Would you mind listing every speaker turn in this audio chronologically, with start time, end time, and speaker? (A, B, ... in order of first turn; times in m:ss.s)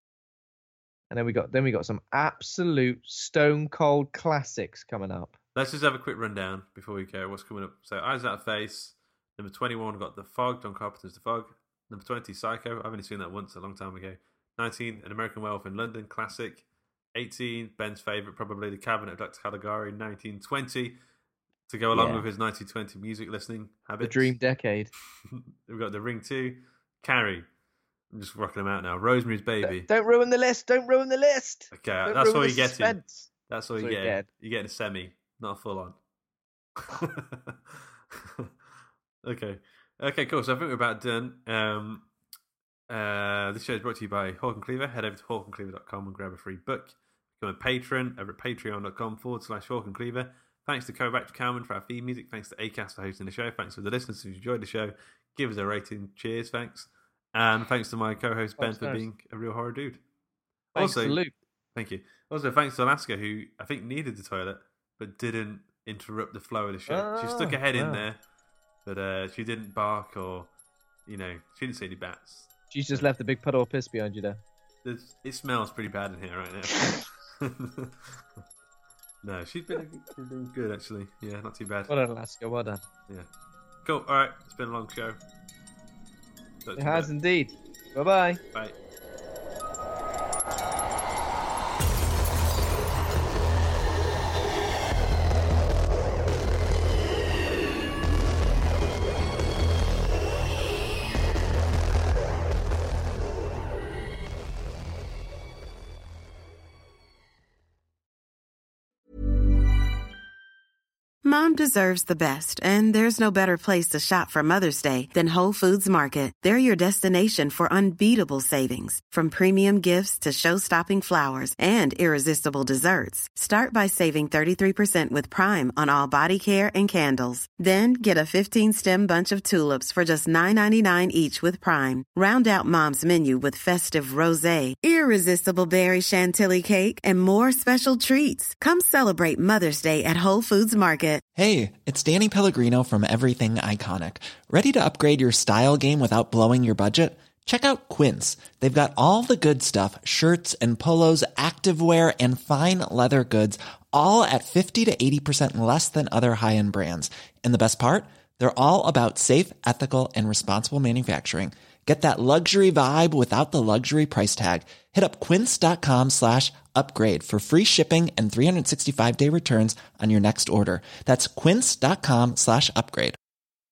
0:01.1-0:05.3 A
0:05.6-0:16.6 B
0:17.2-0:21.0 B
0:21.7-0:24.4 B
0:21.9-0:22.2 A
0:24.0-0:24.9 A
0:25.3-0:27.5 B
0:28.1-0:29.9 B
0:29.6-0:34.3 A
0:31.7-0:33.0 B
0:33.5-0:36.0 B
0:36.8-0:38.5 B
0:39.2-0:42.1 B
0:42.9-1:00.0 B
0:58.6-0:59.0 A
1:00.8-1:01.2 B
1:00.8-1:01.3 A
1:01.8-1:08.2 B
1:06.9-1:08.0 A
1:08.8-1:10.5 B
1:11.1-1:13.1 B
1:12.7-1:14.4 A
1:14.8-1:18.4 B
1:19.2-1:21.9 B
1:21.9-1:22.8 A
1:23.8-1:25.2 B
1:26.6-1:27.1 B
1:26.8-1:28.4 A
1:51.2-2:21.2 C
2:21.4-2:53.2 D